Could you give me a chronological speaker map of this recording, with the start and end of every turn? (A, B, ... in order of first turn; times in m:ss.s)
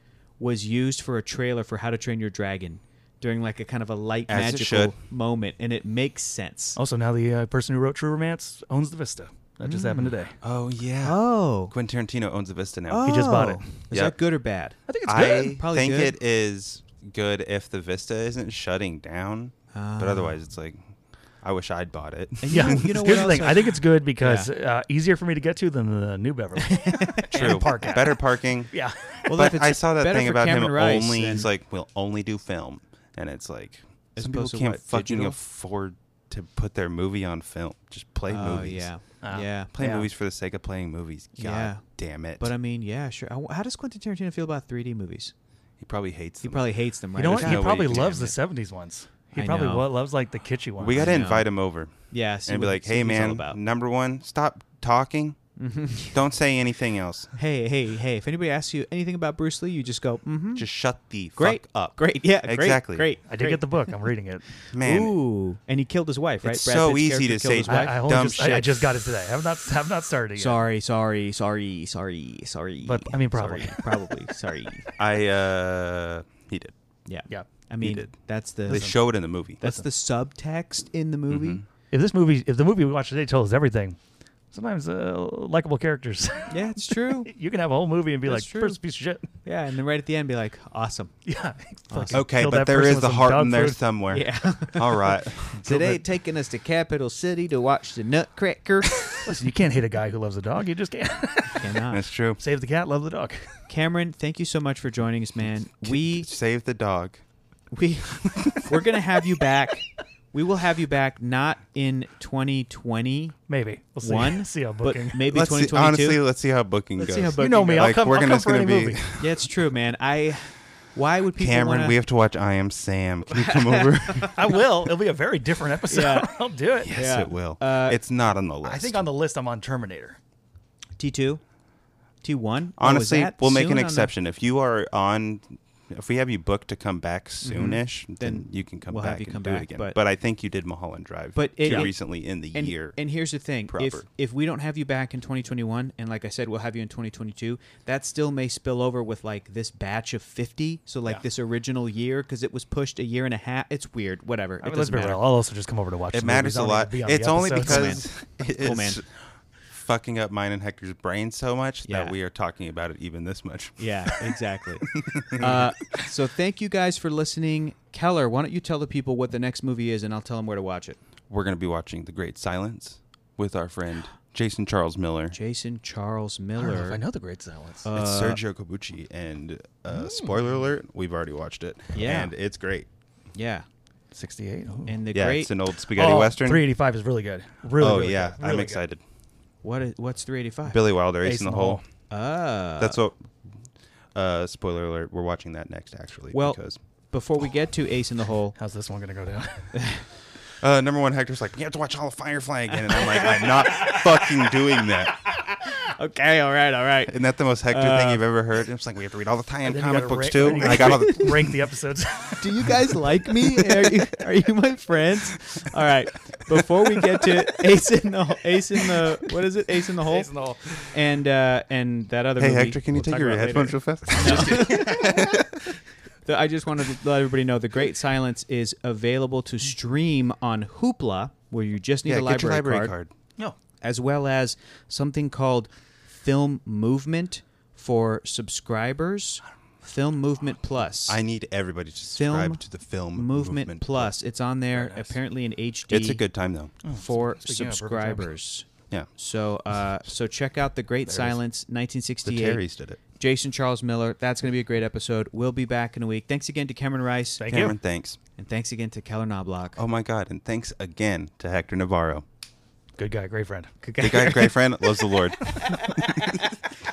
0:00.4-0:06.8 A
0:04.3-0:05.0 B
0:06.8-0:10.4 C
0:09.6-0:10.1 A
0:10.4-0:13.1 B
0:11.0-0:11.7 A
0:12.9-0:14.8 A
0:13.0-0:13.8 C
0:13.9-0:14.2 B
0:14.9-0:15.6 C
0:15.1-0:22.9 B
0:15.4-0:16.2 A
0:19.7-0:20.3 A
0:22.4-0:24.5 A
0:22.5-0:29.3 C
0:26.6-0:27.6 A
0:27.3-0:38.9 B
0:29.2-0:31.5 A
0:34.2-0:35.4 A
0:38.3-0:39.7 A
0:39.2-0:40.1 C
0:39.7-0:42.5 B
0:41.4-0:41.9 A
0:42.4-0:45.3 A
0:45.8-0:46.6 B
0:46.4-0:48.2 A
0:47.2-0:51.2 C
0:47.2-0:48.3 B
0:49.4-0:49.9 A
0:50.8-0:55.4 B
0:50.9-0:51.5 A
0:52.1-0:53.6 A
0:55.6-0:56.2 A
0:56.1-0:57.3 B
0:57.4-1:00.7 A
1:00.6-1:03.1 B
1:01.4-1:03.6 A
1:03.3-1:04.4 C
1:04.7-1:05.2 B
1:04.8-1:08.6 A
1:06.4-1:08.9 B
1:07.7-1:10.6 C
1:10.4-1:14.9 A
1:12.8-1:14.0 C
1:15.0-1:16.7 B
1:17.1-1:21.6 A
1:17.8-1:19.8 B
1:18.7-1:19.0 C
1:21.3-1:21.6 B
1:21.9-1:24.0 C
1:24.5-1:29.3 C
1:26.5-1:27.3 A
1:28.2-1:28.8 A
1:29.4-1:31.2 A
1:31.2-1:33.8 C
1:31.9-1:32.2 A
1:32.1-1:36.0 B
1:34.1-1:39.4 A
1:39.1-1:41.8 C
1:41.6-1:42.0 A
1:41.9-1:42.4 B
1:42.4-1:43.6 C
1:43.7-1:46.3 A
1:45.8-1:47.2 B
1:47.7-1:53.4 A
1:48.2-1:48.8 B
1:53.5-1:55.2 C
1:54.0-1:56.2 A
1:55.2-1:59.5 B
1:57.0-1:57.9 A
1:57.4-1:59.0 C
1:59.2-2:02.0 A
2:01.4-2:04.6 B
2:03.3-2:07.0 C
2:05.9-2:06.4 A
2:06.8-2:09.0 B
2:06.9-2:08.0 A
2:08.6-2:10.2 C
2:11.0-2:11.4 A
2:12.2-2:14.1 A
2:12.8-2:23.0 B
2:17.4-2:20.0 A
2:21.4-2:22.0 A
2:21.6-2:21.9 C
2:22.5-2:35.2 A
2:23.7-2:24.0 B
2:34.6-2:38.0 C
2:36.1-2:43.9 B
2:37.5-2:39.0 A
2:41.9-2:42.1 A
2:43.8-2:51.0 A
2:44.9-2:45.7 B
2:51.3-2:55.4 B
2:55.3-2:57.0 A
2:56.6-2:57.9 C
2:57.8-2:58.4 A
2:57.9-3:02.9 B
2:59.9-3:00.3 C
3:01.9-3:02.3 A
3:03.3-3:03.7 A
3:04.1-3:05.0 C
3:04.9-3:05.5 A
3:05.1-3:06.6 B
3:06.0-3:08.8 C
3:07.8-3:09.0 B
3:09.6-3:10.8 A
3:10.7-3:11.8 B
3:11.2-3:11.8 C
3:12.1-3:13.0 A
3:12.8-3:13.2 B
3:14.2-3:16.8 B
3:16.3-3:16.6 A
3:17.1-3:18.6 A
3:18.6-3:19.9 C
3:19.7-3:20.1 A
3:20.6-3:25.2 B
3:22.7-3:27.1 A
3:27.1-3:31.6 B
3:27.7-3:28.2 A
3:29.7-3:32.8 C
3:30.5-3:31.1 A
3:32.4-3:45.4 A
3:40.0-3:40.9 C
3:42.4-3:45.6 B
3:44.2-3:44.7 C
3:46.2-3:52.9 A
3:52.1-3:53.1 B
3:53.8-4:01.2 A
4:01.1-4:04.1 B
4:02.1-4:02.6 A
4:03.1-4:06.2 A
4:04.7-4:05.1 C
4:05.9-4:06.7 B
4:06.8-4:08.3 C
4:06.9-4:17.4 A
4:11.1-4:11.4 C
4:12.2-4:13.0 B
4:17.4-4:17.8 C
4:17.5-4:18.2 B
4:18.4-4:19.8 A
4:19.8-4:22.2 B
4:23.0-4:23.7 C
4:23.8-4:25.2 A
4:24.0-4:26.4 B
4:25.7-4:26.6 A